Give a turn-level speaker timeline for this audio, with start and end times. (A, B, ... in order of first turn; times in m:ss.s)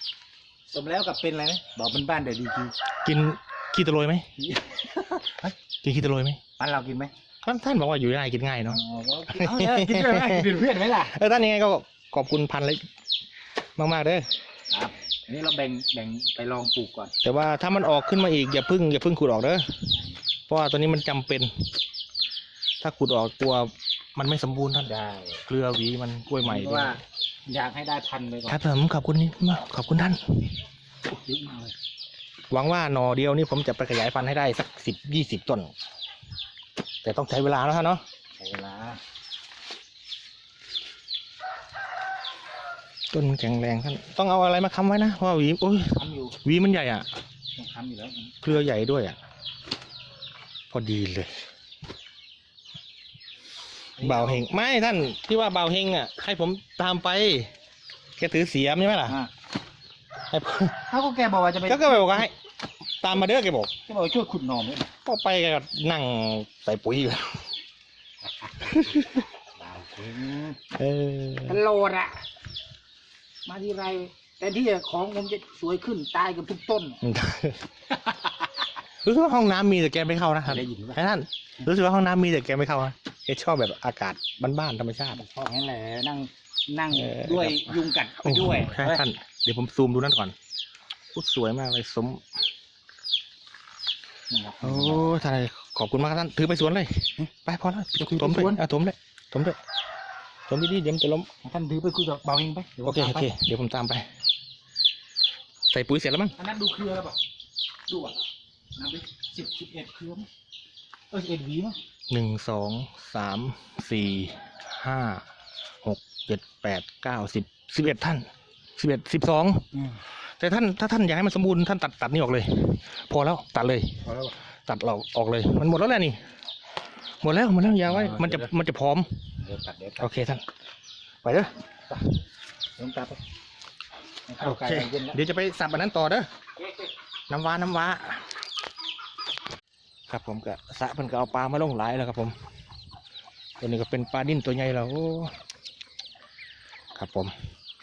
0:00.7-0:02.8 A
0:03.0-0:04.3 B
0:04.4-0:05.5 A
0:05.8-0:06.4 B
0:06.6-0:07.1 A
0:07.4-0:08.8 B
0:08.7-0:11.1 A
0:09.4-0:10.5 B
0:11.0-0:12.8 B
0:13.8-0:14.2 B
0:14.7-0:17.1 A
0:17.2-0:19.6 B
0:20.5-0:21.5 B
0:22.8-0:24.9 B
0:24.8-0:25.4 A
0:25.5-0:27.0 B
0:26.4-0:28.6 A
0:28.5-0:30.4 B
0:31.1-0:31.7 A
0:32.5-0:35.7 B
0:37.0-0:38.0 B
0:38.4-0:39.0 A
0:43.1-0:47.1 B
0:46.0-0:46.4 A
0:47.6-0:48.4 A
0:48.4-0:49.2 B
0:50.7-0:51.3 B
0:54.0-0:54.4 A
0:54.0-0:57.5 B
0:58.2-0:59.2 B
1:00.3-1:00.8 B
1:00.9-1:02.3 A
1:01.7-1:02.3 B
1:03.0-1:03.7 B
1:03.9-1:04.9 A
1:05.0-1:07.5 B
1:08.4-1:08.9 A
1:08.6-1:09.2 B
1:09.6-1:10.6 A
1:10.8-1:11.6 B
1:11.5-1:12.2 A
1:13.4-1:17.0 A
1:17.0-1:17.6 B
1:18.0-1:18.5 A
1:19.0-1:25.2 B
1:20.5-1:21.0 A
1:25.2-1:29.0 A
1:26.9-1:30.4 B
1:31.1-1:32.2 B
1:34.3-1:35.2 A
1:34.6-1:39.6 B
1:38.0-1:38.6 A
1:40.5-1:41.3 B
1:41.4-1:43.3 A
1:42.8-1:44.1 B
1:45.7-1:46.4 B
1:46.4-1:47.2 A
1:47.9-1:48.2 A
1:48.8-1:50.3 A
1:51.1-1:51.8 A
1:52.1-1:55.2 B
1:55.8-1:59.6 B
1:59.7-2:00.0 A
2:00.4-2:04.0 B
2:04.0-2:04.3 A
2:04.7-2:06.2 B
2:07.2-2:09.1 B
2:07.9-2:08.5 A
2:09.4-2:10.1 A
2:10.0-2:10.4 B
2:11.2-2:11.5 B
2:12.8-2:13.2 A
2:14.3-2:15.2 A
2:14.4-2:16.3 B
2:16.6-2:16.9 A
2:17.3-2:18.3 B
2:20.1-2:22.4 B
2:23.6-2:25.3 B
2:27.0-2:27.3 B